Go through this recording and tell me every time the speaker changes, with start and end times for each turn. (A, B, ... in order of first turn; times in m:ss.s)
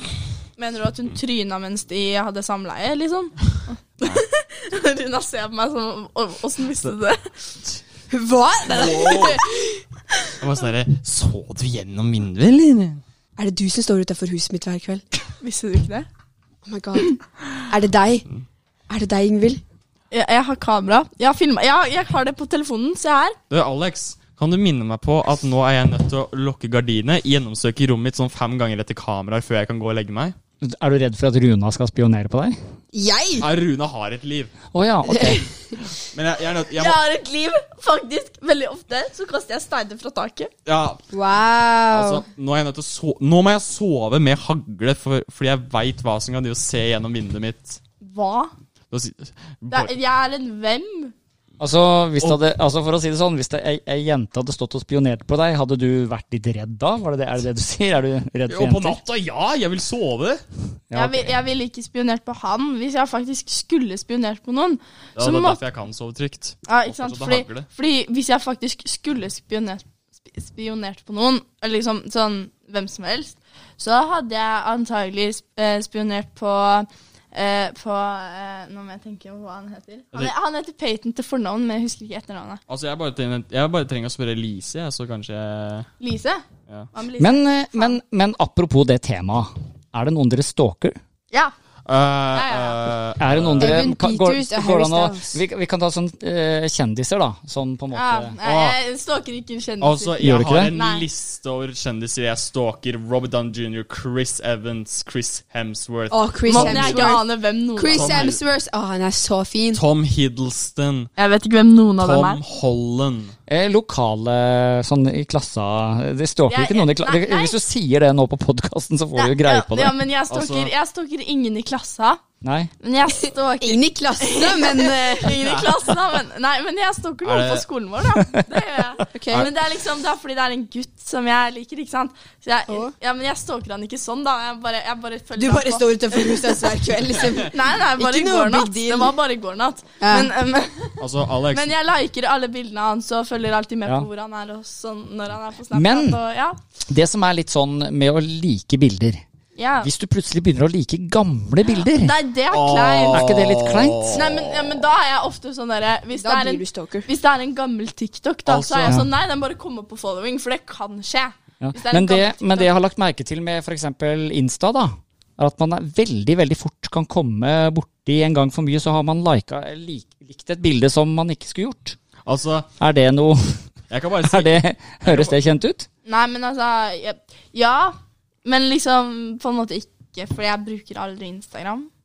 0:00.6-0:07.5 A
0:08.1-0:09.8 B
0:08.7-0:09.4 C
0:10.4-0:13.0 C
0:13.4-0:15.0 B
0:15.4-0:16.1 A
0:16.6-0:18.2 B
0:18.9-0:19.6 B
0:20.1-0:23.4 A
0:23.5-0:30.3 C
0:30.6-0:32.6 D
0:32.9-0:33.5 B
0:33.4-0:34.5 C
0:34.7-0:35.4 D
0:35.1-0:35.4 B
0:36.1-0:37.0 C
0:36.7-0:40.5 A
0:40.6-0:41.0 C
0:41.1-0:42.2 B
0:41.9-0:47.8 C
0:48.0-0:48.5 A
0:48.9-0:49.9 C
0:49.7-0:51.1 A
0:51.6-0:59.0 D
0:58.5-1:00.4 C
1:00.9-1:01.3 D
1:00.9-1:05.6 A
1:05.2-1:07.7 C
1:06.7-1:22.6 A
1:22.7-1:25.9 C
1:26.0-1:28.0 A
1:27.2-1:31.0 D
1:31.8-1:33.8 C
1:32.3-1:32.8 A
1:33.2-1:38.4 D
1:33.6-1:35.4 B
1:37.9-1:40.1 A
1:38.4-1:38.8 C
1:39.8-1:47.2 C
1:40.2-1:40.7 D
1:40.7-1:41.0 A
1:46.1-1:47.2 B
1:46.4-1:48.3 A
1:47.8-1:49.8 B
1:47.9-1:48.4 C
1:49.7-1:51.1 C
1:51.2-1:52.4 A
1:52.0-1:53.3 C
1:53.5-2:00.0 D
1:56.5-1:57.6 A
1:59.2-2:02.2 A
2:00.3-2:00.7 C
2:02.4-2:02.7 D
2:02.8-2:16.7 A
2:03.6-2:05.4 B
2:05.4-2:05.7 C
2:07.2-2:07.6 C
2:09.1-2:09.5 B
2:15.4-2:19.2 B
2:17.3-2:26.6 A
2:20.0-2:20.3 B
2:21.0-2:21.7 C
2:25.7-2:26.2 D
2:26.9-2:29.2 D
2:29.6-2:29.9 A
2:29.8-2:32.2 D
2:31.8-2:33.3 A
2:32.5-2:34.7 C
2:33.1-2:34.2 D
2:34.1-2:42.7 A
2:36.2-2:37.1 B
2:38.5-2:39.0 C
2:41.6-2:52.0 D
2:52.2-2:52.7 C
2:52.8-2:53.6 D
2:53.9-2:55.5 C
2:54.2-2:55.9 D
2:56.0-3:01.9 A